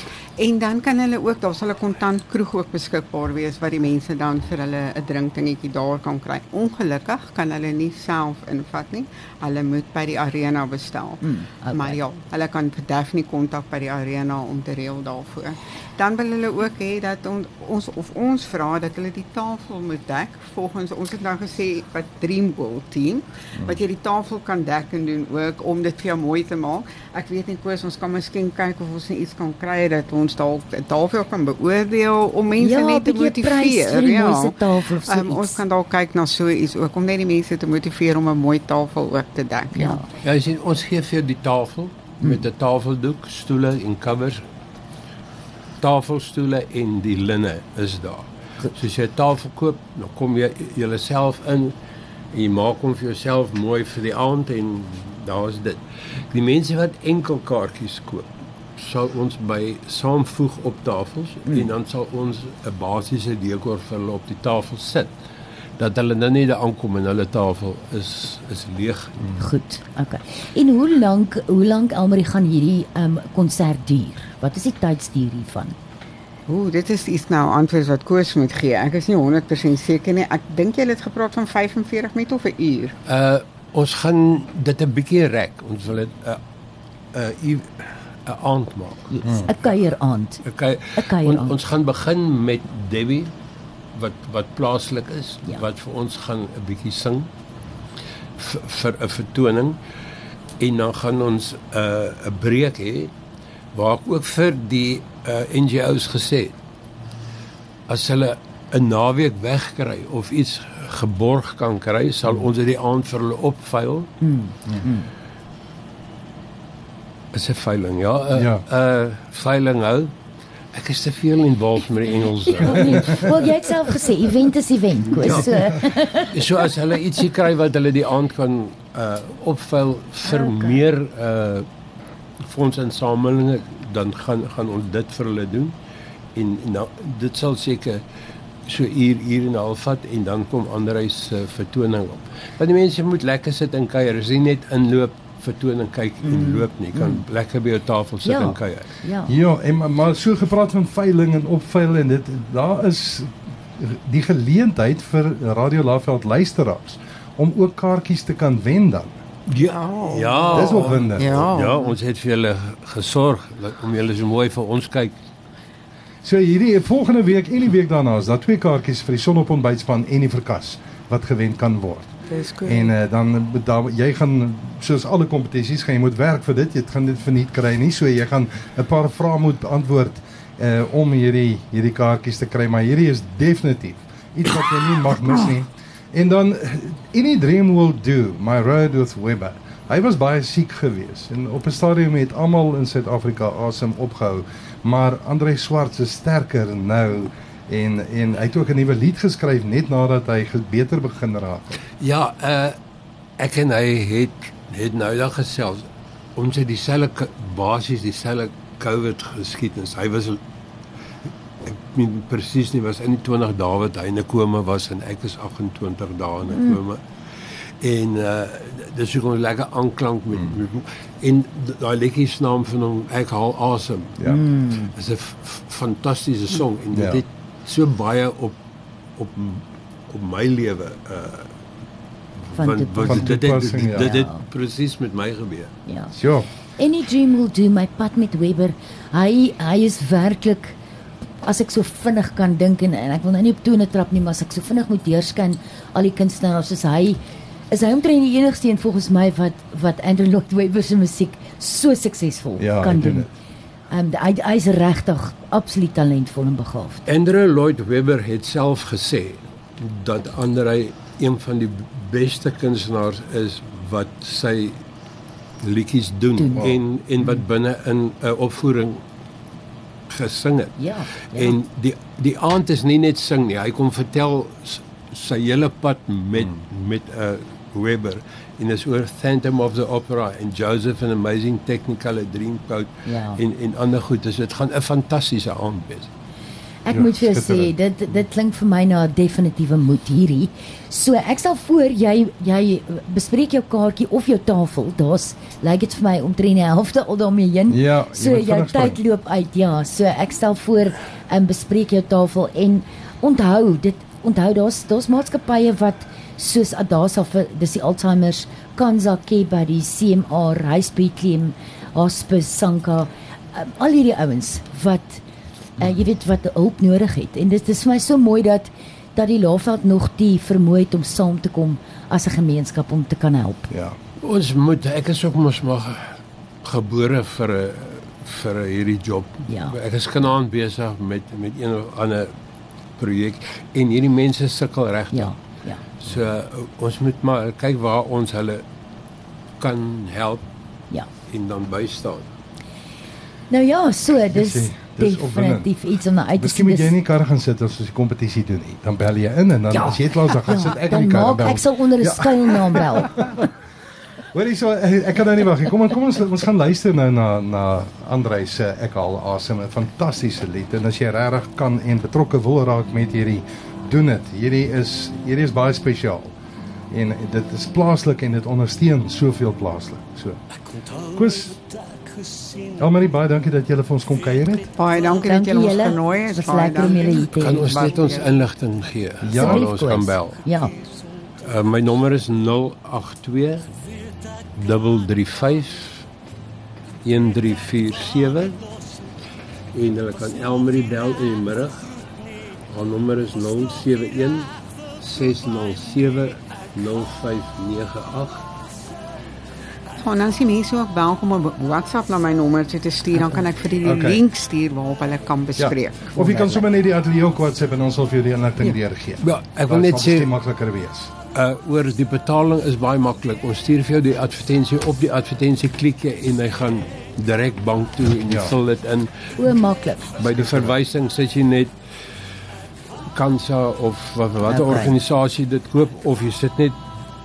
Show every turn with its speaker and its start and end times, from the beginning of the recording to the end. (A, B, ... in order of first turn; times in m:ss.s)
0:00.4-0:40.0 A
0:11.2-0:12.0 B
0:32.6-0:35.6 B
0:39.7-0:40.1 B
0:40.2-0:44.4 C
0:45.8-0:51.8 C
0:52.3-1:05.1 C
1:05.8-1:09.2 C
1:09.4-1:15.8 B
1:16.5-1:22.9 A
1:23.1-1:26.4 C
1:27.1-1:29.1 C
1:29.1-1:30.4 B
1:29.2-1:29.5 D
1:30.4-1:33.3 C
1:31.0-1:31.6 B
1:33.9-1:37.3 C
1:38.4-1:39.8 C
1:40.6-1:43.1 C
1:43.7-1:46.6 C
1:47.9-1:54.1 C
1:54.2-1:55.1 B
1:57.3-2:00.1 C
1:58.4-1:58.6 D
2:00.7-2:03.3 C
2:02.4-2:06.6 B
2:02.9-2:03.2 D
2:05.1-2:05.8 C
2:06.3-2:11.6 C
2:10.2-2:10.8 B
2:12.4-2:15.8 C
2:16.4-2:18.0 C
2:18.6-2:28.9 C
2:26.2-2:27.2 B
2:28.2-2:29.4 B
2:29.3-2:39.2 D
2:39.5-2:45.2 C
2:39.5-2:42.0 A
2:40.5-2:41.4 D
2:46.2-3:21.7 D
2:52.3-2:52.9 A
3:22.0-3:22.8 C
3:23.4-3:30.4 C
3:31.6-3:44.2 C
3:36.5-3:36.8 B
3:44.2-3:44.9 B
3:44.9-3:48.6 C
3:46.9-3:47.2 D
3:49.2-3:51.5 C
3:52.4-3:55.7 C
3:52.5-3:54.4 B
3:53.0-3:54.1 D
3:55.9-3:56.1 B
3:56.1-3:56.5 D
3:56.8-4:00.8 B
4:01.4-4:07.2 B
4:07.7-4:13.3 B
4:12.6-4:13.3 D
4:13.9-4:17.0 B
4:17.1-4:24.8 C
4:25.6-4:29.0 C
4:26.4-4:26.7 B
4:30.1-4:30.8 C
4:30.8-4:31.6 B
4:31.3-4:46.1 C
4:43.0-4:43.4 B
4:46.8-5:15.2 B
4:46.9-4:47.7 D
4:57.7-4:59.0 D
5:15.8-5:23.7 B
5:23.7-5:24.0 D
5:24.2-5:32.3 C
5:29.5-5:29.8 B
5:33.0-5:35.4 C
5:35.1-5:35.8 B
5:36.0-5:38.6 C
5:39.6-5:40.4 C
5:41.3-5:42.3 C
5:43.5-5:47.0 B
5:44.3-5:45.7 D
5:46.4-5:53.4 D
5:49.7-5:53.5 B
5:54.3-6:06.3 D
6:06.9-6:10.4 D
6:11.0-6:11.6 D
6:12.7-6:14.6 D
6:14.7-6:18.3 A
6:15.2-6:17.8 B
6:17.2-6:20.4 C
6:19.2-6:19.7 D
6:19.3-6:20.7 B
6:21.4-6:23.7 C
6:24.6-6:26.0 C
6:27.0-6:28.7 C
6:29.7-6:31.9 C
6:32.7-6:38.5 C
6:40.0-6:46.6 A
6:43.8-6:44.2 D
6:45.6-6:51.1 D
6:49.2-6:50.3 C
6:51.3-6:59.6 C
6:58.3-6:58.5 D
6:59.4-7:00.1 B
7:00.2-7:01.7 C
7:00.2-7:00.7 D
7:03.1-7:06.8 C
7:04.4-7:05.0 B